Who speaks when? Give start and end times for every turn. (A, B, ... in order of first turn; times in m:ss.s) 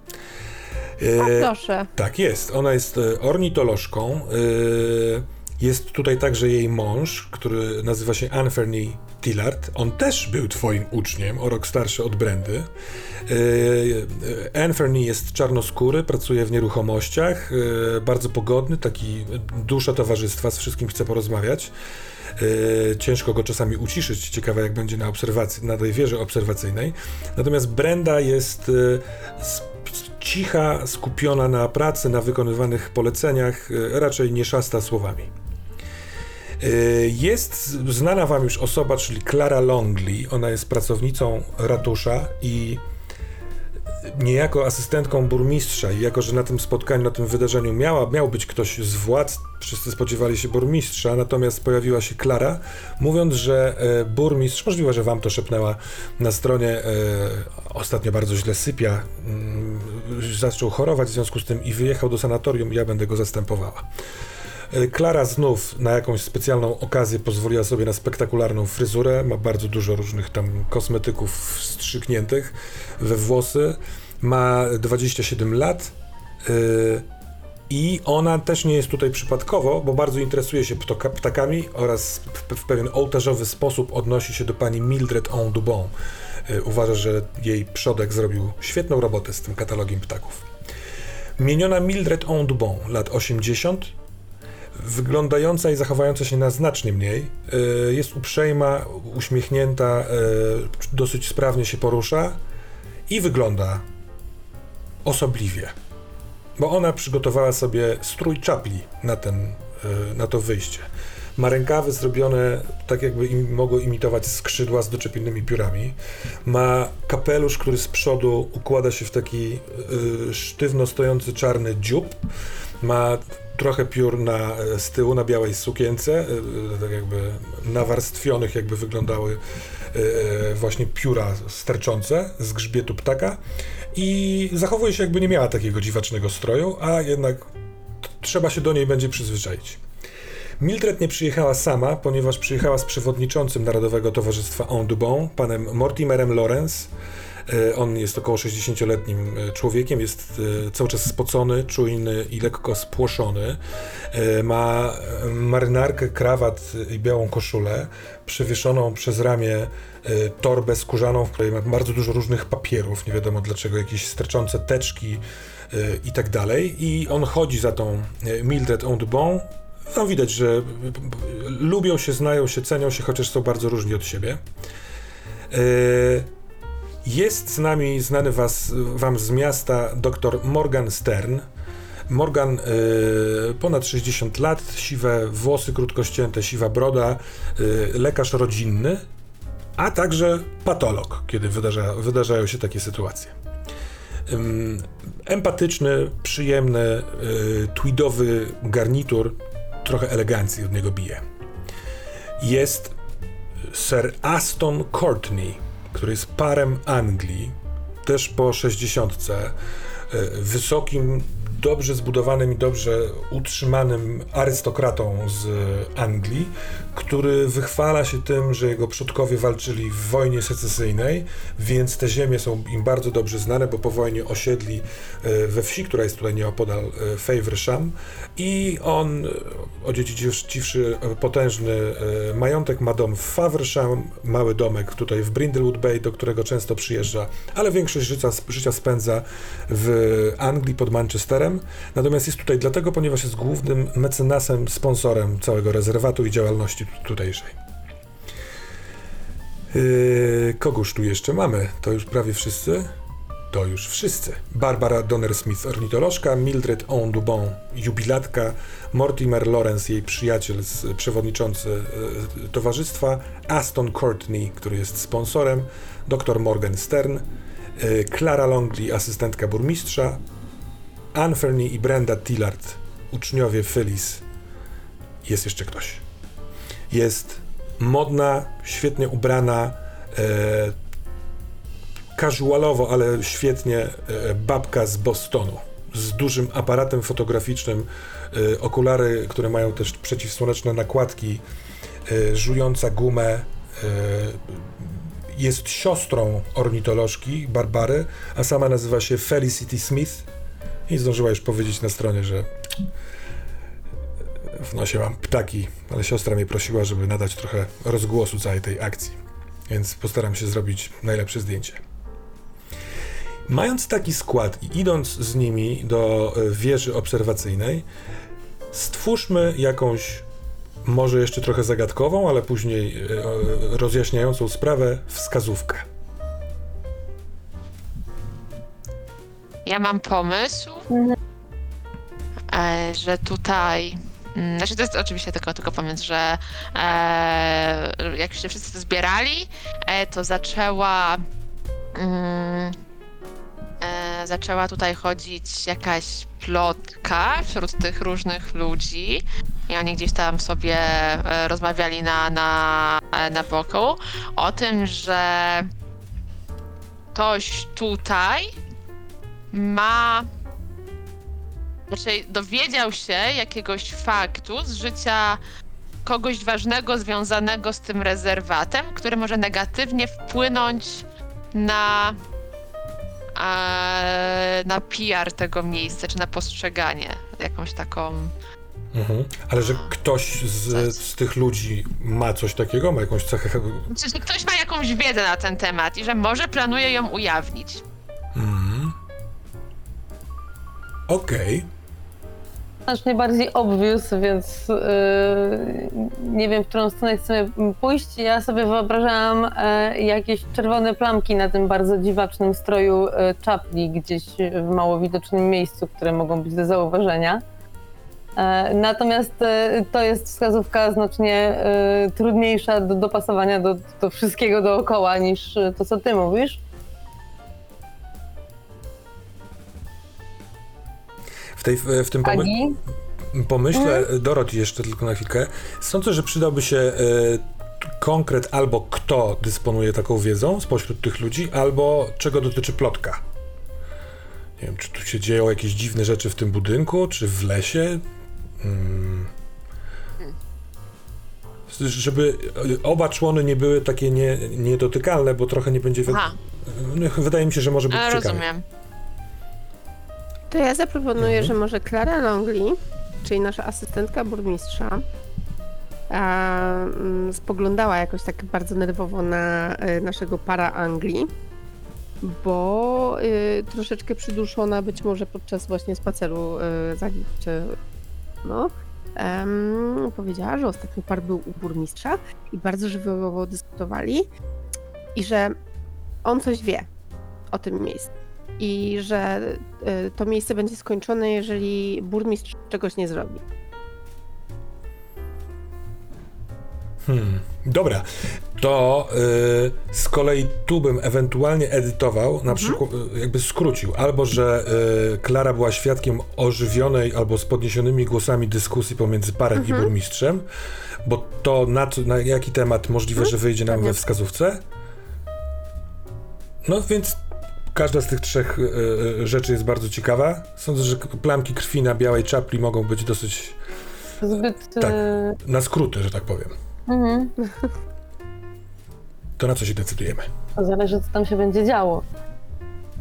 0:01.0-0:12.7 A
0:01.2-0:01.9 B
0:13.3-0:21.7 A
0:22.4-0:35.3 A
0:36.6-0:42.8 A
0:44.0-1:03.9 A
1:04.7-1:17.1 A
1:17.7-1:25.9 A
1:26.5-1:30.5 A
1:31.4-1:33.9 A
1:34.8-1:42.4 A
1:43.1-1:43.8 A
1:45.0-1:45.7 A
1:46.6-2:02.2 A
2:02.8-2:09.4 A
2:09.9-2:13.4 A
2:13.9-2:17.5 A
2:18.0-2:19.8 A
2:20.6-2:26.9 A
2:27.5-2:33.6 A
2:34.1-2:54.4 A
2:55.5-2:56.3 A
2:57.0-3:01.5 A
3:02.1-3:09.0 A
3:09.8-3:13.3 A
3:14.3-3:21.2 A
3:22.4-3:22.9 A
3:23.7-3:29.6 A
3:30.1-4:07.6 A
4:09.7-4:12.9 A
4:13.5-4:27.2 A
4:27.8-4:30.2 A
4:31.1-4:34.2 A
4:35.2-4:36.0 A
4:36.9-4:40.8 A
4:42.2-4:51.4 A
4:52.1-5:00.3 A
5:00.9-5:02.5 A
5:04.5-5:11.8 A
5:13.5-5:17.9 A
5:18.7-5:20.3 A
5:20.8-5:25.9 A
5:29.7-5:30.9 C
5:30.9-5:31.2 D
5:32.5-5:41.2 C
5:42.0-5:42.8 C
5:43.8-5:55.7 C
5:57.1-5:58.5 C
5:59.5-6:00.3 C
6:01.9-6:05.4 C
6:06.0-6:12.2 C
6:13.4-6:18.3 C
6:18.9-6:23.9 A
6:19.6-6:19.9 C
6:20.7-6:21.0 C
6:23.9-6:27.8 C
6:28.3-6:29.0 A
6:31.1-6:31.7 A
6:32.9-6:47.4 D
6:48.4-6:56.6 D
7:01.6-7:02.5 A
7:02.2-7:02.8 D
7:03.3-7:13.2 A
7:03.7-7:04.1 D
7:14.6-7:18.0 A
7:18.6-7:19.3 A
7:21.7-7:28.5 A
7:26.1-7:26.4 C
7:27.9-7:28.6 C
7:30.5-7:35.0 B
7:31.2-7:31.6 A
7:36.1-7:41.3 B
7:42.2-7:47.8 B
7:48.4-7:54.3 B
7:55.2-7:55.6 B
7:56.2-7:56.9 B
7:57.5-8:03.4 B
8:07.0-8:20.5 A
8:12.5-8:12.8 B
8:19.6-8:19.9 B
8:21.0-8:24.6 A
8:23.7-8:24.0 B
8:26.6-8:27.2 A
8:27.7-8:33.6 A
8:34.2-8:35.4 D
8:34.8-8:36.6 A
8:36.9-8:37.3 D
8:37.4-8:37.7 B
8:39.4-8:40.3 A
8:40.6-8:42.0 D